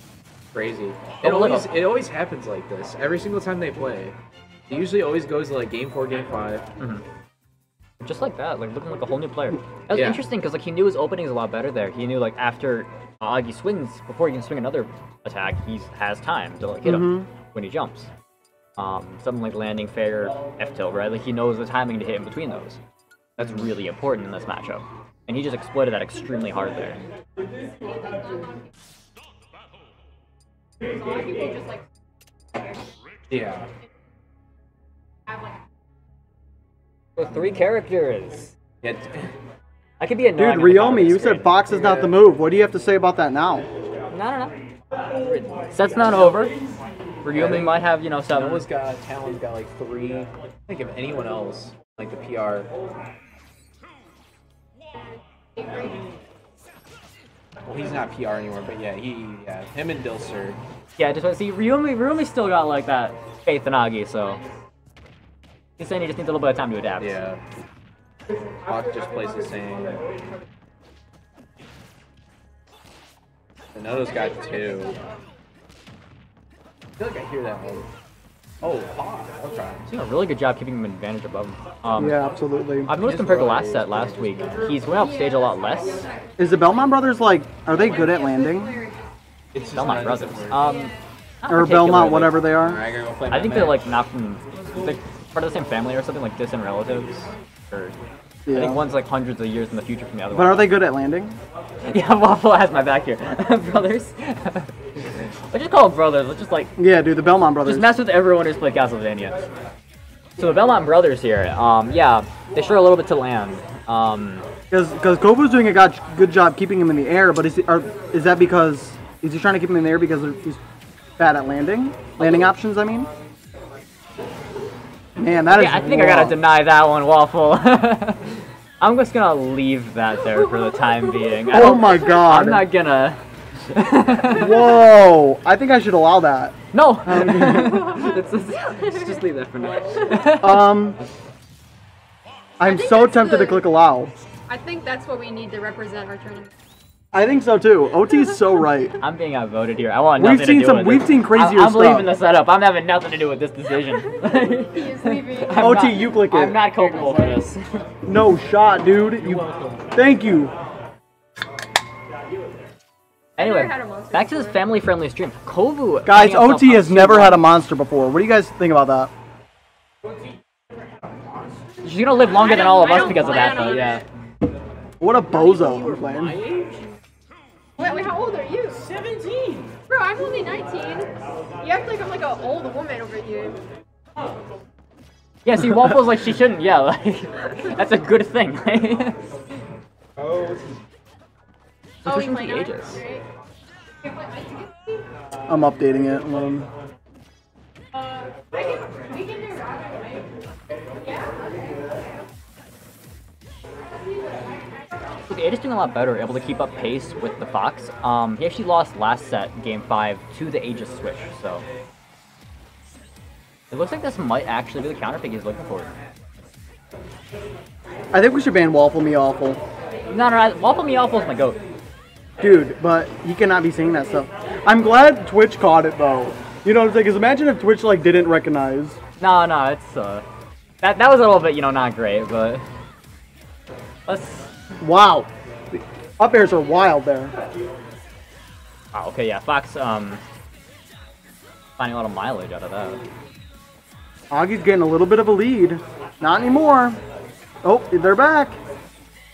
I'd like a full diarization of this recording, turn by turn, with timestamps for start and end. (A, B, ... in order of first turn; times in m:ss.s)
0:00.5-0:04.2 A
0:01.2-0:01.7 B
0:04.7-0:06.7 A
0:06.8-0:07.0 B
0:08.0-0:18.1 B
0:09.9-0:10.2 A
0:16.8-0:17.3 C
0:18.8-0:22.8 B
0:23.4-0:27.0 B
0:27.8-0:28.6 D
0:30.9-0:31.8 D
0:33.3-0:33.7 A
0:37.2-0:38.5 B
0:38.8-0:39.2 A
0:40.0-0:41.6 B
0:40.3-0:43.7 C
0:44.1-0:44.5 B
0:45.1-0:45.7 A
0:45.7-0:46.5 B
0:47.2-0:48.6 B
0:47.3-0:52.7 A
0:57.6-1:00.6 A
1:01.0-1:04.4 B
1:05.8-1:07.2 B
1:07.0-1:07.4 A
1:08.6-1:10.0 A
1:13.7-1:15.0 A
1:17.0-1:17.9 A
1:18.6-1:19.9 A
1:19.9-1:22.2 B
1:22.0-1:22.9 C
1:22.8-1:26.1 B
1:23.0-1:24.8 A
1:26.4-1:28.9 C
1:27.7-1:29.0 D
1:29.5-1:30.6 A
1:29.7-1:32.5 B
1:31.5-1:32.8 C
1:32.5-1:33.9 A
1:33.3-1:38.0 B
1:38.4-1:38.8 C
1:38.5-1:40.7 B
1:40.3-1:41.4 C
1:41.8-1:46.7 B
1:46.8-1:48.0 C
1:47.6-1:49.4 B
1:50.4-1:54.5 B
1:54.7-2:00.6 C
2:01.2-2:03.1 C
2:02.2-2:02.5 B
2:05.2-2:06.4 C
2:05.5-2:14.7 B
2:11.5-2:12.7 C
2:14.2-2:17.8 C
2:16.7-2:20.7 B
2:20.4-2:21.0 C
2:22.6-2:24.1 C
2:22.6-2:23.6 D
2:24.5-2:26.5 D
2:27.1-2:29.0 C
2:29.0-2:37.8 B
2:30.2-2:32.1 C
2:34.3-2:35.9 D
2:35.5-2:36.6 C
2:38.0-2:40.5 C
2:43.4-2:47.4 B
2:43.4-2:44.6 D
2:46.0-2:49.1 C
2:51.8-2:54.0 B
2:52.2-2:54.0 D
2:55.0-2:56.4 C
2:55.2-2:56.9 A
2:57.8-2:58.8 D
2:57.8-2:58.1 A
2:58.7-2:59.7 A
2:59.9-3:03.6 D
3:05.4-3:09.2 B
3:12.0-3:13.0 B
3:12.0-3:13.2 D
3:14.0-3:14.8 D
3:15.5-3:16.7 C
3:17.9-3:20.2 D
3:25.3-3:31.6 B
3:33.7-3:35.9 B
3:38.1-3:39.6 C
3:40.1-3:41.6 B
3:42.4-3:49.0 C
3:49.2-3:50.2 B
3:50.8-3:52.6 B
3:54.1-3:54.5 B
3:54.8-3:57.3 C
3:58.9-4:00.2 B
4:01.8-4:03.0 B
4:04.3-4:07.0 C
4:07.6-4:08.6 C